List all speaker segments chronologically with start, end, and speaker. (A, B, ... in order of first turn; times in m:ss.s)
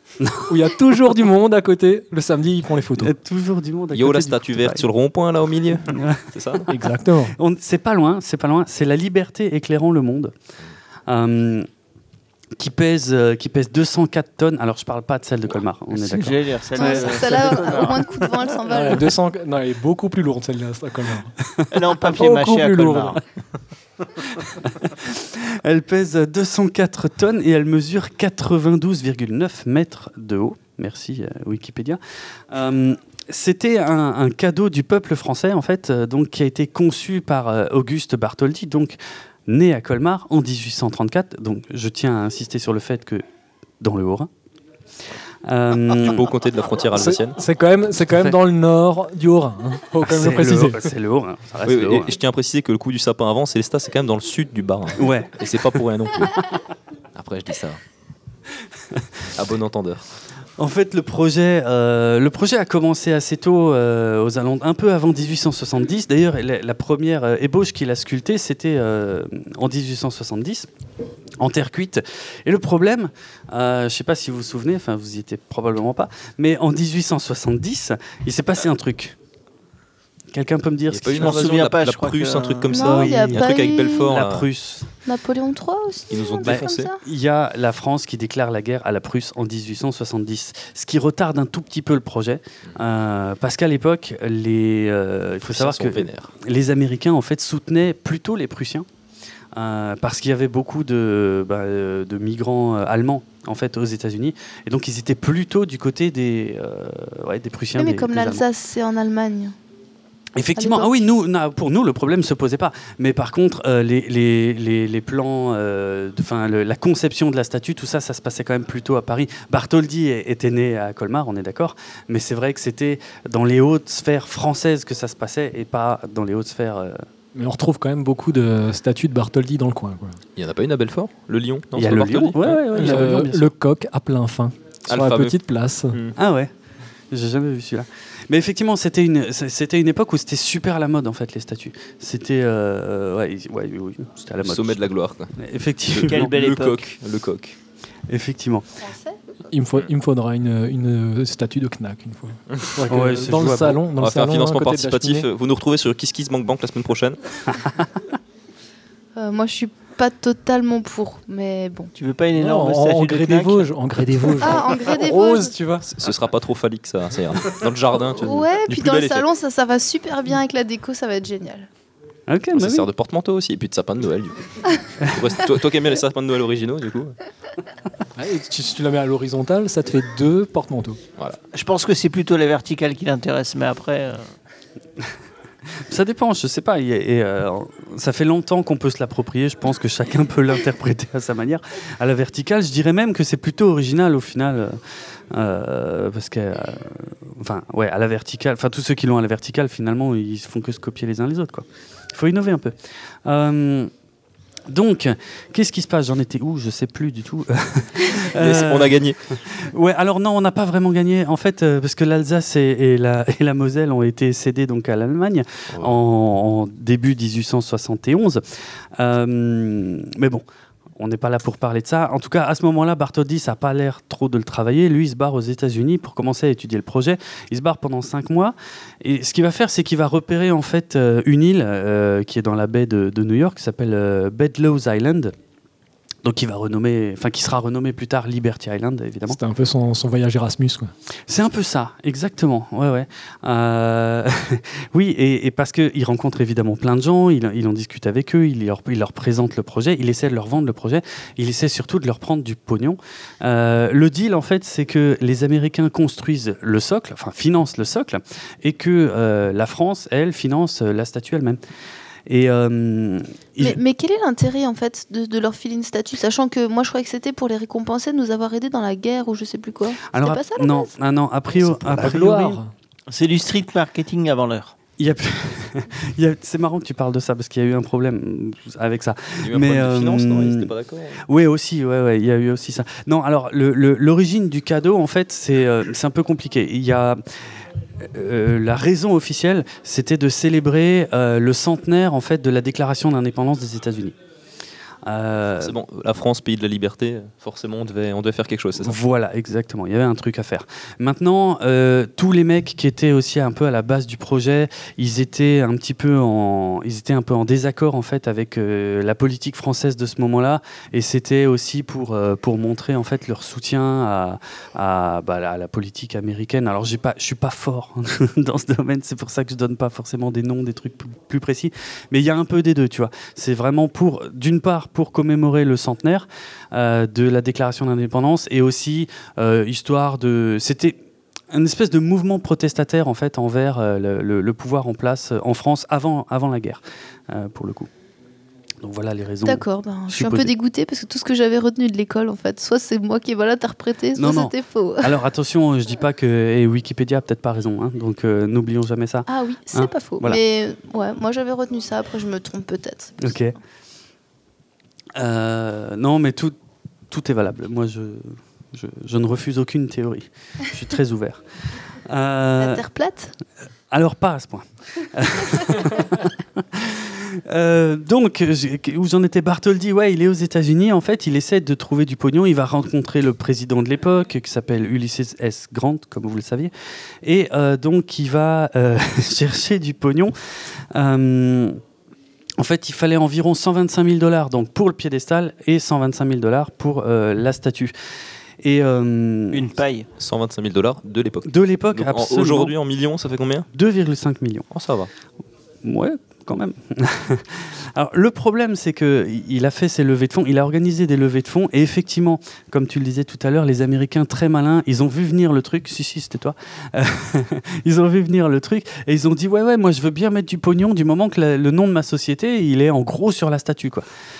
0:00.2-0:00.5 A
0:00.4-0:03.1 B
0:03.0-0:04.8 A
0:03.9-0:06.7 C
0:05.9-0:06.2 A
0:06.7-0:07.3 B
0:07.4-0:10.3 A
0:11.1-0:11.7 A
0:12.6-0:17.1 A
0:16.0-0:18.3 D
0:16.8-0:19.1 E
0:18.7-0:21.3 B
0:21.7-0:23.2 D
0:22.0-0:23.2 B
0:24.6-0:32.0 A
0:32.5-0:43.2 A
0:43.8-0:44.3 A
0:45.4-0:46.2 A
0:45.8-0:47.4 C
0:46.9-0:50.9 B
0:50.0-0:52.1 A
0:51.6-0:56.6 C
0:55.0-0:55.4 A
0:57.1-0:57.8 C
0:59.3-1:00.0 C
1:00.6-1:10.7 A
1:11.4-1:19.2 A
1:20.3-1:21.5 A
1:20.9-1:24.5 C
1:21.2-1:22.7 D
1:22.7-1:24.1 E
1:22.7-1:24.9 A
1:25.0-1:27.0 E
1:26.1-1:26.9 C
1:26.4-1:38.8 A
1:35.4-1:36.3 C
1:39.5-1:48.4 A
1:47.8-1:49.6 E
1:50.4-2:07.0 A
1:50.6-1:51.1 E
2:07.3-2:10.2 B
2:10.4-2:13.1 C
2:11.7-2:13.5 A
2:12.7-2:16.0 B
2:14.9-2:15.4 C
2:15.9-2:16.2 C
2:16.2-2:16.5 A
2:17.1-2:24.8 A
2:24.4-2:25.3 C
2:25.4-2:26.3 A
2:25.9-2:27.6 C
2:26.0-2:26.8 D
2:28.1-2:28.6 A
2:28.8-2:29.2 E
2:29.5-2:35.3 B
2:32.9-2:33.8 A
2:34.0-2:37.6 C
2:39.1-2:41.9 E
2:41.9-2:43.7 D
2:42.3-2:45.9 B
2:44.4-2:45.5 E
2:45.9-2:49.3 C
2:48.2-2:51.7 E
2:52.3-2:52.9 A
2:52.5-2:57.1 C
2:58.2-3:01.0 B
3:01.5-3:04.3 D
3:05.9-3:14.8 A
3:15.3-3:23.9 A
3:24.7-3:38.4 A
3:28.2-3:29.3 C
3:35.7-3:36.0 C
3:39.0-3:40.4 A
3:41.0-3:55.3 A
3:56.2-3:59.4 A
3:59.3-4:00.9 B
4:01.3-4:21.6 A
4:22.3-4:23.8 A
4:23.6-4:30.9 E
4:30.1-4:32.6 A
4:31.5-4:32.7 B
4:33.1-4:34.7 D
4:35.0-4:40.7 A
4:39.4-4:41.2 C
4:41.2-4:47.2 A
4:48.0-4:54.1 A
4:55.0-4:55.8 A
4:55.6-4:59.0 C
4:58.8-5:31.0 A
5:31.5-5:37.9 A
5:38.8-5:40.5 A
5:39.4-5:45.1 E
5:44.2-5:50.4 A
5:49.3-5:53.4 E
5:53.2-5:53.5 A
5:55.2-5:56.5 A
5:57.1-6:01.4 A
6:02.0-6:02.8 A
6:02.6-6:03.3 E
6:03.9-6:16.7 A
6:17.2-6:20.3 A
6:20.9-6:21.8 A
6:22.6-6:27.9 A
6:28.6-6:29.6 A
6:29.5-6:30.1 D
6:30.2-6:33.7 C
6:31.4-6:32.7 A
6:33.7-6:34.7 A
6:34.7-6:35.1 C
6:35.8-6:54.0 A